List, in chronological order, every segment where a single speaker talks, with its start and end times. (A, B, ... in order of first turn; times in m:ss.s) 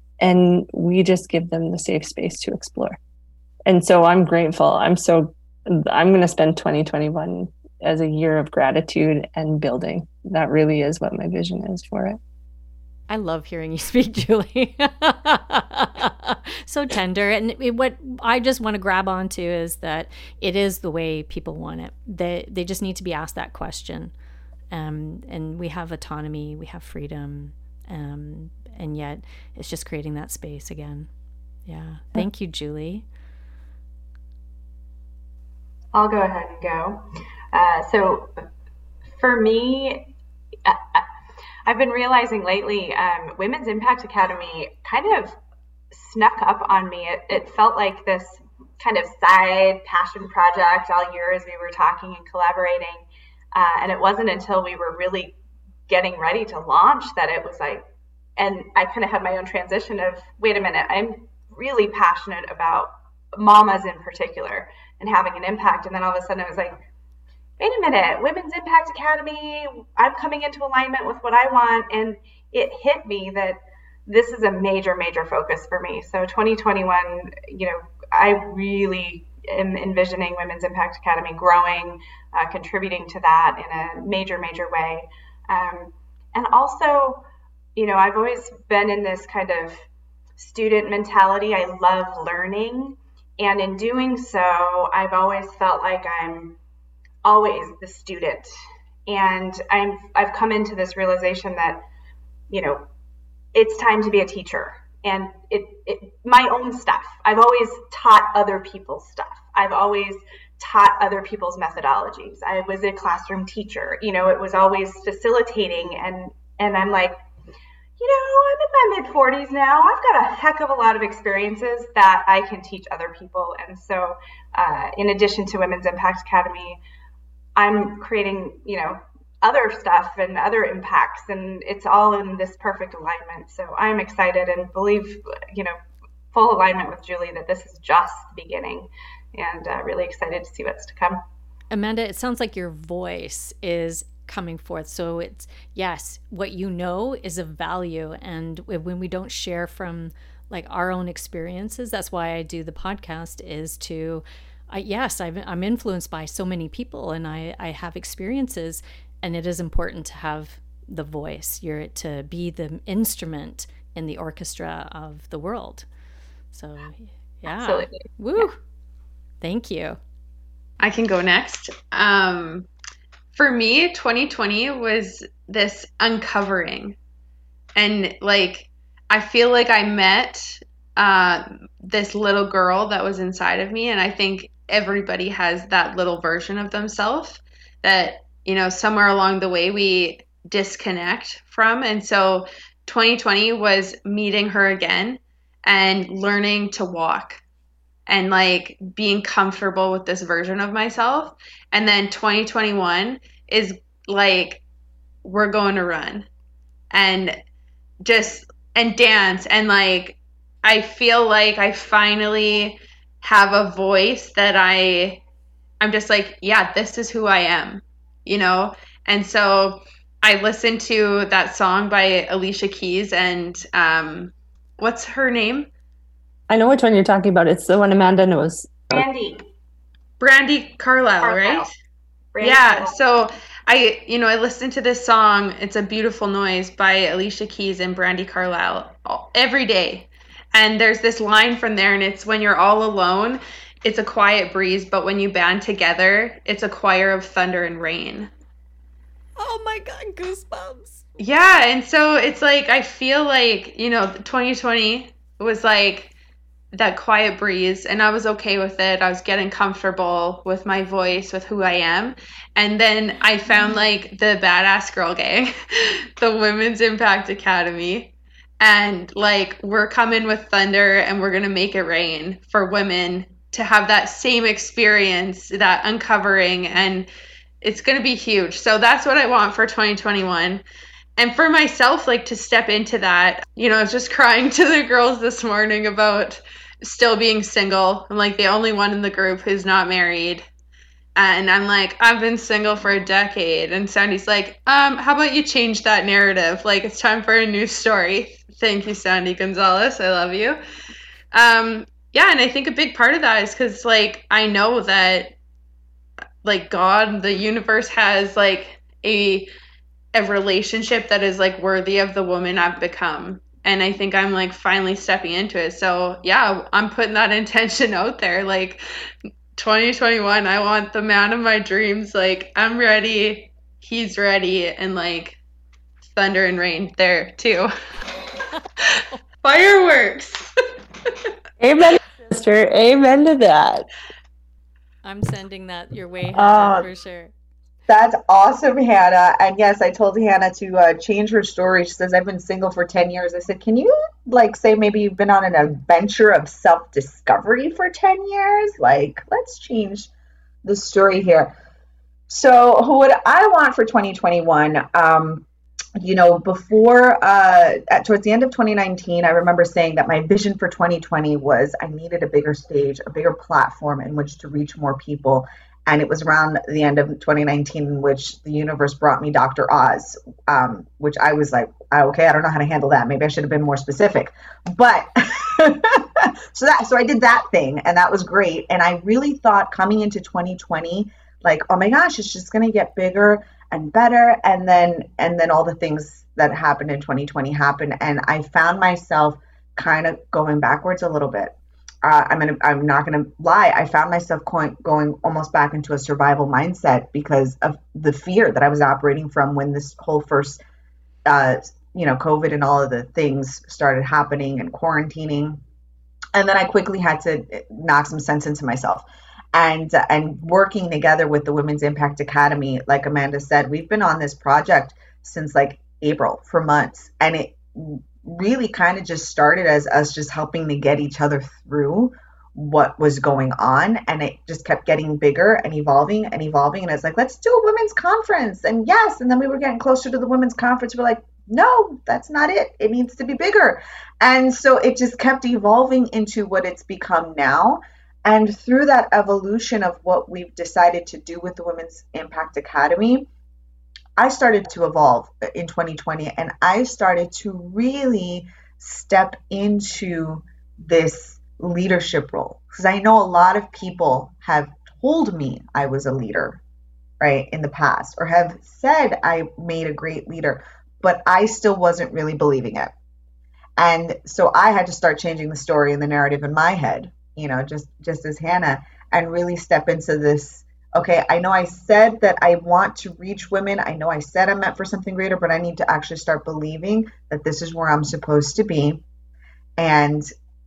0:00.2-0:03.0 A
0:03.7-0:12.2 A
0:13.1-0:24.1 B
0:24.7-0:31.1 B
0:31.6-0:33.0 B
0:35.9-0:38.4 C
0:39.2-0:40.1 C
0:40.6-0:41.0 C
0:41.6-0:45.4 C
0:45.9-0:55.4 C
0:55.9-0:57.8 C
0:58.4-1:06.8 C
1:07.6-1:27.2 C
1:27.7-1:29.8 C
1:30.4-1:36.6 C
1:37.2-1:38.5 C
1:39.1-1:41.8 C
1:42.5-1:42.8 C
1:43.5-1:57.2 C
1:58.0-2:06.8 C
2:07.6-2:15.8 C
2:16.3-2:21.2 C
2:21.7-2:45.9 B
2:46.5-2:48.6 B
2:47.6-2:48.0 C
2:49.4-2:50.0 B
2:50.8-2:52.7 D
2:53.3-2:57.0 D
2:57.8-3:17.4 D
3:18.1-3:24.6 D
3:25.2-3:26.3 D
3:26.9-3:27.4 D
3:28.0-3:35.2 D
3:35.8-3:45.7 D
3:46.5-3:49.0 A
3:48.9-3:49.4 C
3:50.2-3:51.7 D
3:51.2-3:51.7 C
3:52.3-3:53.0 C
3:52.4-4:08.3 D
4:09.4-4:11.1 B
4:11.2-4:16.1 D
4:16.7-4:37.1 D
4:37.6-4:40.6 D
4:41.2-4:50.4 D
4:51.2-5:00.6 D
5:01.3-5:05.3 D
5:06.4-5:09.5 D
5:10.1-5:18.8 D
5:19.6-5:25.4 D
5:26.1-5:27.7 D
5:29.4-5:30.5 D
5:31.6-5:33.9 A
5:35.0-5:37.3 B
5:36.4-5:36.9 A
5:37.9-5:50.1 E
5:50.6-5:51.5 E
5:52.3-5:55.4 E
5:56.0-6:40.6 E
6:41.3-6:45.6 E
6:46.3-7:23.3 E
7:24.2-7:36.6 E
7:37.2-7:42.9 E
7:43.8-7:59.0 E
7:59.8-8:00.3 E